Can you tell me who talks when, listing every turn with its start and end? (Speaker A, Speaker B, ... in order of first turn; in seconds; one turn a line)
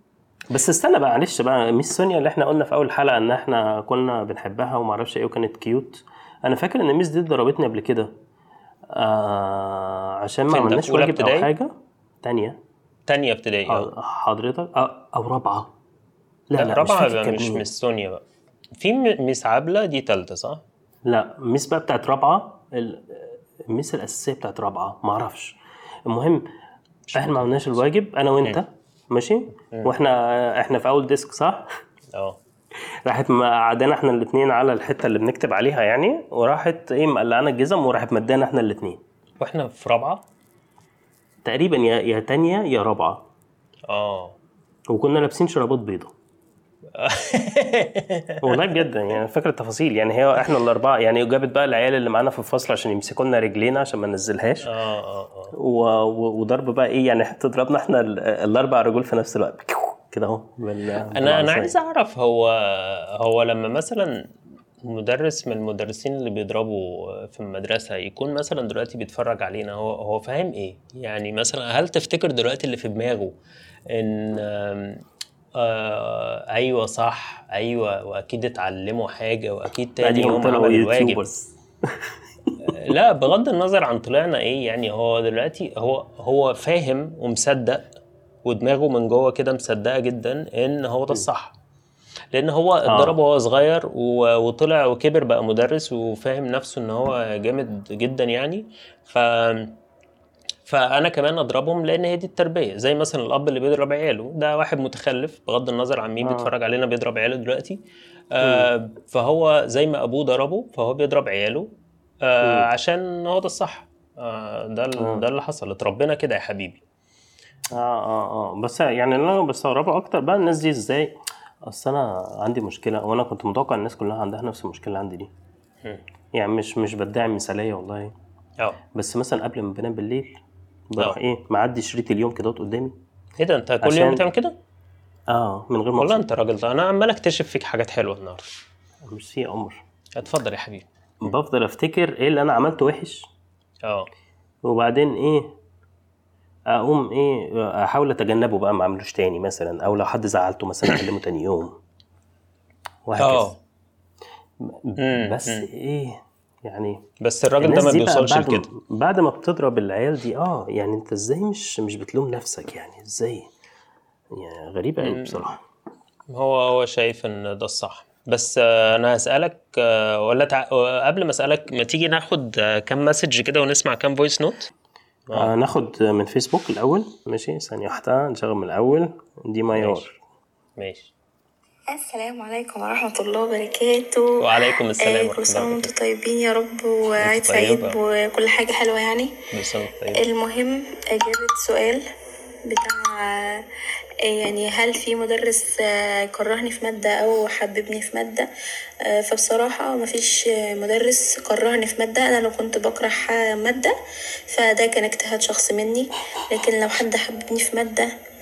Speaker A: 0.5-8.1
Speaker A: 8.9-12.6
Speaker B: 10.5-11.5
Speaker B: 13.1-13.9
Speaker A: 13.7-15.7
Speaker A: 16.5-17.7
Speaker B: 16.6-18.2
Speaker B: 18.8-20.6
Speaker A: 21.1-25.6
Speaker A: 26.1-26.5
Speaker B: 27.1-27.8
Speaker A: 27.1-31.7
Speaker B: 32.1-32.4
Speaker A: 33.1-39.0
Speaker B: 39.4-40.2
Speaker A: 41.5-43.3
Speaker B: 43.9-44.4
Speaker A: 44.9-46.1
Speaker B: 46.9-48.9
Speaker A: 48.4-54.7
Speaker B: 54.6-55.5
Speaker A: 55.5-61.7
Speaker B: 61.1-64.2
Speaker B: 64.8-73.3
Speaker B: 73.9-75.0
Speaker B: 75.6-81.2
Speaker A: 80.0-82.7
Speaker B: 82.7-87.9
Speaker B: 88.5-91.5
Speaker B: 92.3-99.8
Speaker A: 92.9-93.2
Speaker B: 100.7-107.8
Speaker A: 106.2-106.5
Speaker B: 108.3-111.7
Speaker A: 108.4-108.7
Speaker B: 112.2-116.8
Speaker A: 112.4-112.7
Speaker A: 115.0-115.2
Speaker A: 117.7-125.3
Speaker A: 126.3-128.1
Speaker A: 128.9-130.4
Speaker A: 130.9-132.9
Speaker B: 133.4-134.6
Speaker A: 133.8-134.2
Speaker A: 135.3-136.2
Speaker B: 136.0-138.5
Speaker A: 139.1-139.8
Speaker B: 140.2-141.3
Speaker A: 141.2-143.2
Speaker B: 143.8-144.1
Speaker A: 144.7-145.5
Speaker A: 146.7-151.8
Speaker A: 153.1-153.5
Speaker B: 153.2-153.6
Speaker A: 154.6-157.0
Speaker B: 155.0-155.7
Speaker B: 157.2-158.7
Speaker A: 157.6-163.5
Speaker A: 164.3-165.6
Speaker B: 165.0-165.4
Speaker B: 166.3-174.7
Speaker B: 175.3-175.5
Speaker A: 175.3-180.2
Speaker B: 179.7-180.1
Speaker B: 180.8-181.1
Speaker C: 181.9-189.3
Speaker B: 184.4-185.9
Speaker B: 187.2-188.0
Speaker B: 189.5-190.2
Speaker C: 190.1-192.0
Speaker C: 192.7-193.7
Speaker C: 194.2-198.5
Speaker C: 199.1-203.9
Speaker C: 204.5-208.1